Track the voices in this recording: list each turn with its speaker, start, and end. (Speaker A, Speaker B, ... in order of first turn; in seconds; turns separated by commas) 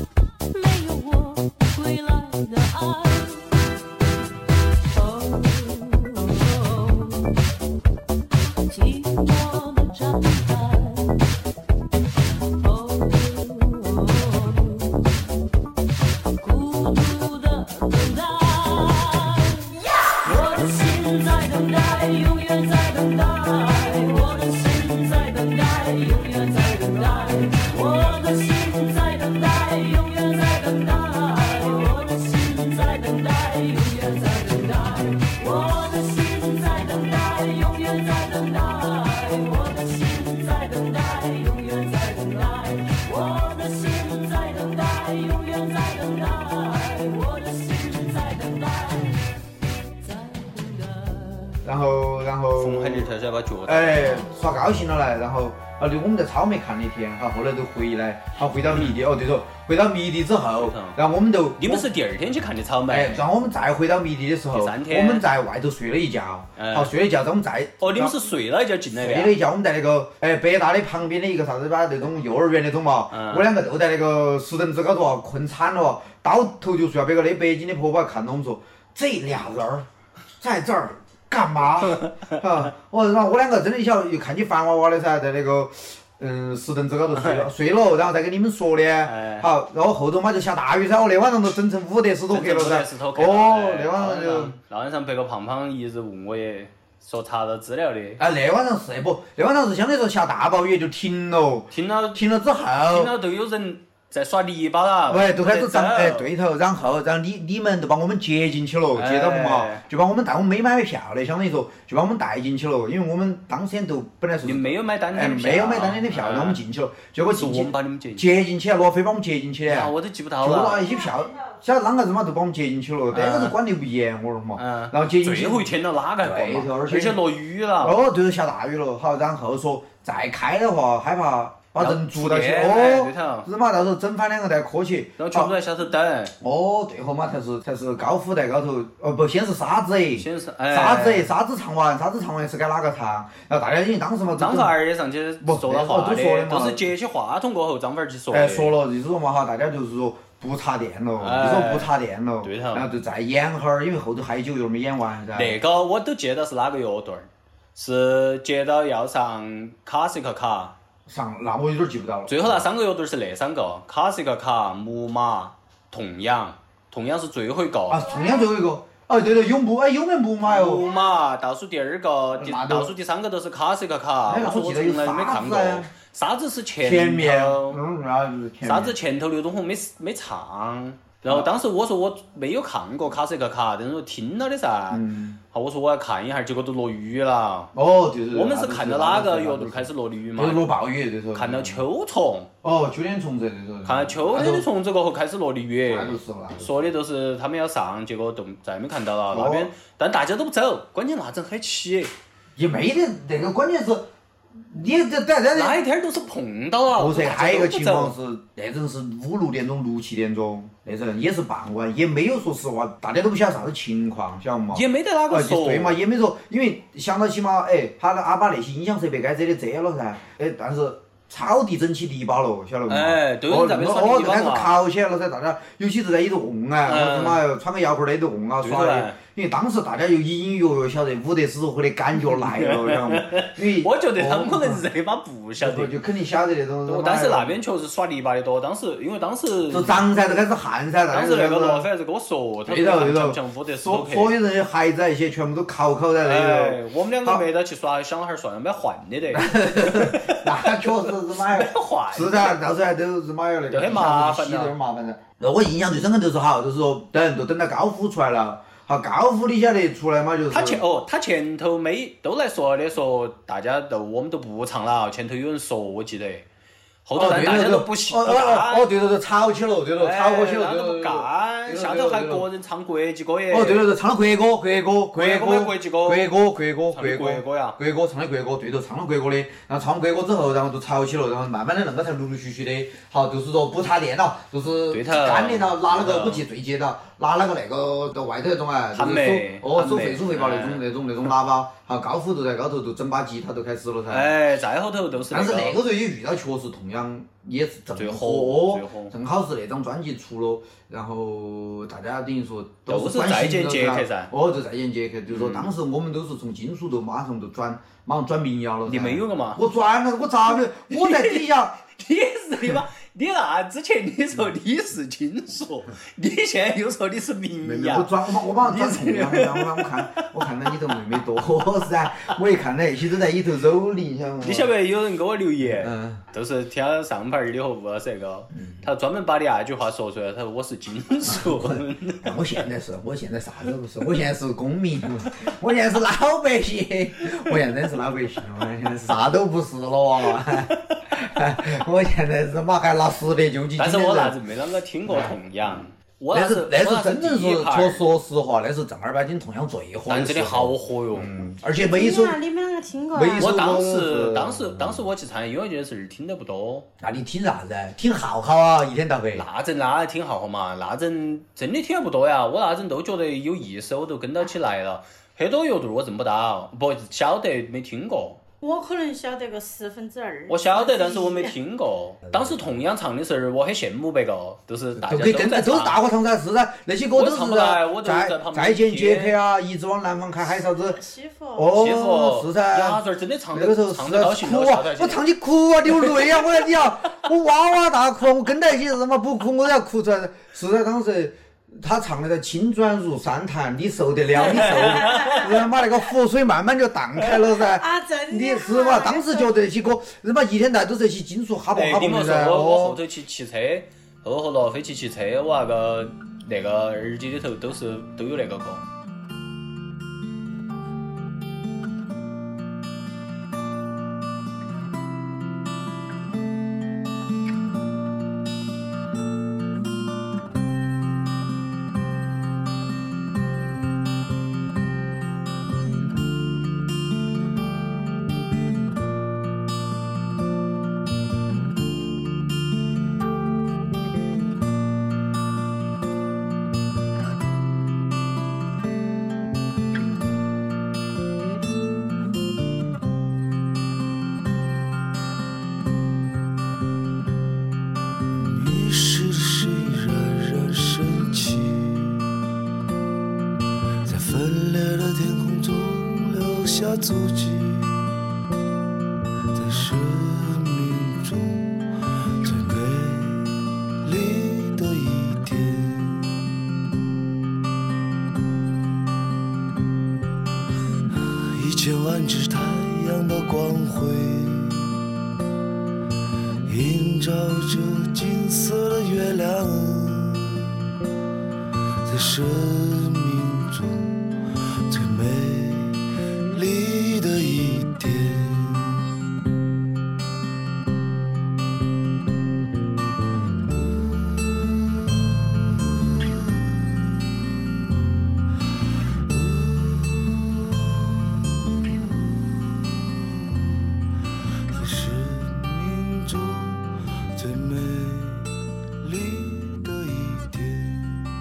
Speaker A: 0.5-3.5, Speaker A: 4.9-7.3, Speaker A: 8.7-11.2, Speaker A: 12.6-15.1, Speaker A: 16.3-49.2, Speaker A: 50.0-51.5, Speaker B: 51.6-53.1, Speaker C: 52.6-54.3, Speaker B: 53.6-61.9, Speaker C: 58.7-59.0, Speaker C: 60.6-61.0, Speaker C: 61.6-63.2, Speaker B: 62.9-68.3, Speaker C: 64.5-65.3, Speaker C: 66.6-66.9, Speaker C: 67.8-69.4, Speaker B: 69.0-79.9, Speaker C: 73.1-73.5, Speaker B: 80.4-94.6, Speaker C: 81.9-82.3, Speaker C: 87.1-87.5, Speaker C: 89.0-89.5, Speaker C: 92.3-98.2, Speaker B: 98.2-103.1, Speaker C: 101.7-102.2, Speaker C: 102.9-106.3, Speaker B: 105.1-127.2, Speaker C: 108.9-109.8, Speaker C: 114.4-116.6, Speaker C: 117.4-118.4, Speaker C: 119.7-120.9, Speaker C: 123.1-123.6, Speaker C: 124.6-128.0, Speaker B: 127.8-135.5, Speaker C: 131.8-133.5, Speaker C: 135.2-136.3, Speaker B: 136.4-144.7, Speaker C: 140.1-141.3, Speaker C: 144.4-148.7, Speaker B: 145.4-146.9, Speaker B: 148.3-155.6, Speaker C: 151.2-152.9, Speaker C: 155.3-160.7, Speaker B: 161.1-162.7, Speaker C: 162.3-168.1, Speaker B: 167.9-170.9, Speaker D: 168.1-168.5, Speaker C: 170.4-177.8, Speaker B: 172.4-172.9, Speaker B: 174.3-175.9, Speaker B: 176.8-178.9, Speaker C: 178.6-187.7, Speaker B: 181.2-181.6, Speaker B: 184.9-185.4, Speaker B: 187.7-191.8, Speaker C: 188.3-190.7, Speaker C: 191.3-192.5, Speaker B: 192.6-194.7, Speaker C: 193.9-202.1, Speaker B: 195.9-196.9, Speaker B: 199.3-199.7, Speaker B: 202.6-205.8, Speaker C: 205.6-208.2, Speaker B: 206.9-234.9, Speaker C: 214.7-216.0, Speaker C: 222.9-224.8, Speaker C: 226.9-227.4, Speaker C: 228.6-229.2, Speaker C: 232.2-236.0, Speaker B: 235.6-237.6, Speaker C: 236.9-240.1, Speaker B: 239.7-241.9, Speaker C: 241.1-244.4, Speaker B: 242.7-247.4, Speaker C: 246.2-252.6, Speaker B: 249.3-260.8, Speaker C: 253.7-254.7, Speaker C: 260.5-266.4, Speaker C: 267.1-268.9, Speaker B: 267.1-272.5, Speaker C: 270.0-273.9, Speaker B: 273.5-294.4, Speaker C: 275.1-276.3, Speaker C: 276.9-277.8, Speaker C: 284.9-286.4, Speaker C: 288.9-290.8, Speaker C: 294.1-295.8, Speaker B: 295.3-311.8, Speaker C: 297.9-299.1, Speaker C: 302.9-304.3, Speaker C: 305.3-305.7, Speaker C: 308.9-309.7, Speaker C: 310.6-320.8, Speaker B: 317.6-324.7, Speaker C: 324.4-332.4, Speaker B: 325.6-326.2, Speaker B: 331.2-344.4, Speaker C: 340.4-340.7, Speaker C: 343.8-348.1, Speaker B: 345.1-345.8, Speaker B: 346.3-352.4, Speaker C: 350.1-351.3, Speaker D: 351.8-353.6, Speaker B: 353.1-355.1, Speaker C: 353.4-356.9, Speaker B: 357.0-359.4, Speaker C: 359.4-368.4, Speaker D: 368.6-371.5, Speaker C: 370.5-375.9, Speaker B: 375.0-381.0, Speaker C: 377.1-379.4, Speaker D: 380.6-381.7, Speaker B: 381.6-383.0, Speaker C: 381.7-385.2, Speaker B: 383.5-403.0, Speaker D: 394.4-395.6, Speaker C: 394.4-395.5, Speaker D: 397.5-399.5, Speaker C: 401.7-408.8, Speaker E: 448.5-452.3, Speaker E: 454.1-458.1, Speaker E: 459.5-461.8, Speaker E: 462.4-466.3, Speaker E: 471.5-474.9, Speaker E: 476.7-480.7, Speaker E: 482.1-484.1, Speaker E: 484.9-486.0, Speaker E: 486.5-489.1, Speaker E: 499.3-500.4, Speaker E: 502.2-503.7, Speaker E: 504.7-511.2